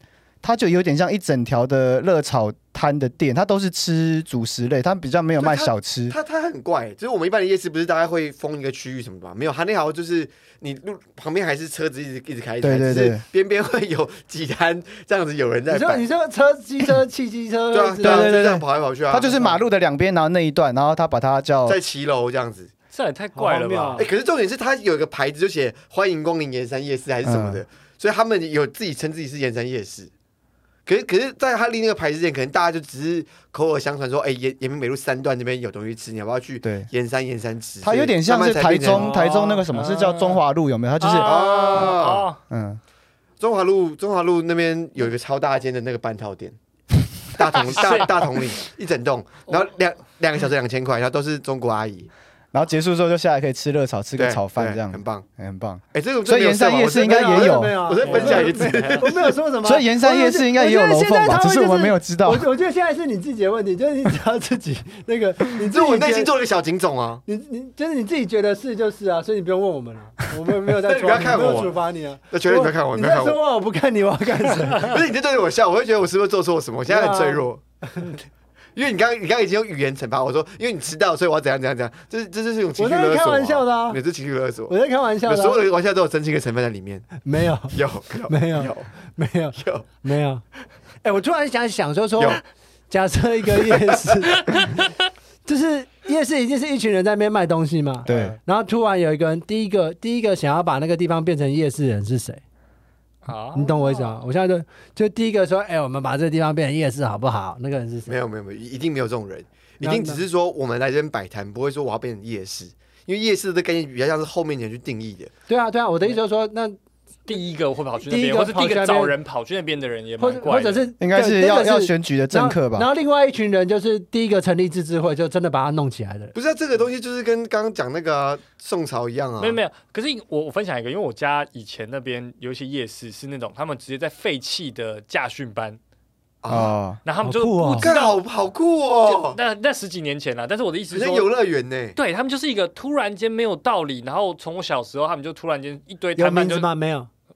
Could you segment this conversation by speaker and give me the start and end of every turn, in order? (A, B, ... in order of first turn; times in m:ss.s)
0:00.4-0:06.2 A
0:05.4-0:16.1 B
0:12.6-0:13.2 A
0:15.7-0:18.4 C
0:17.7-0:19.4 B
0:18.0-0:21.8 A
0:21.6-0:22.7 B
0:22.9-0:24.1 D
0:23.3-0:24.1 C
0:24.0-0:30.1 B
0:27.2-0:27.6 A
0:30.8-0:39.2 B
0:36.6-0:36.9 A
0:37.8-0:41.9 A
0:38.9-0:40.4 D
0:39.0-0:39.6 C
0:41.0-0:42.4 D
0:41.2-0:42.3 B
0:42.5-0:42.8 A
0:43.4-0:46.6 B
0:47.3-0:52.1 B
0:52.5-0:57.8 A
0:54.2-0:55.2 B
0:55.9-0:59.4 B
0:57.0-1:06.3 C
0:58.0-0:59.0 D
0:59.6-1:02.5 A
1:05.6-1:07.2 B
1:07.2-1:15.0 C
1:10.8-1:13.4 B
1:14.8-1:17.6 B
1:16.9-1:18.2 C
1:18.8-1:27.1 B
1:22.8-1:24.0 C
1:24.7-1:25.6 C
1:27.2-1:30.4 C
1:27.7-1:28.9 B
1:29.5-1:29.9 B
1:31.0-1:34.7 C
1:34.5-1:34.8 D
1:35.4-1:42.4 C
1:38.0-1:38.4 D
1:38.0-1:38.4 A
1:43.2-1:44.2 D
1:43.5-1:48.1 C
1:48.0-1:55.3 B
1:49.8-1:50.2 C
1:55.5-1:56.8 C
1:57.3-2:00.9 D
1:58.0-1:59.1 C
2:00.2-2:06.3 C
2:01.0-2:02.9 A
2:06.3-2:09.6 B
2:09.4-2:15.8 D
2:16.4-2:16.7 B
2:16.5-2:17.0 A
2:17.0-2:18.2 D
2:17.2-2:17.9 C
2:17.8-2:19.4 B
2:19.0-2:21.3 D
2:20.9-2:22.0 B
2:22.0-2:26.7 D
2:26.2-2:27.1 C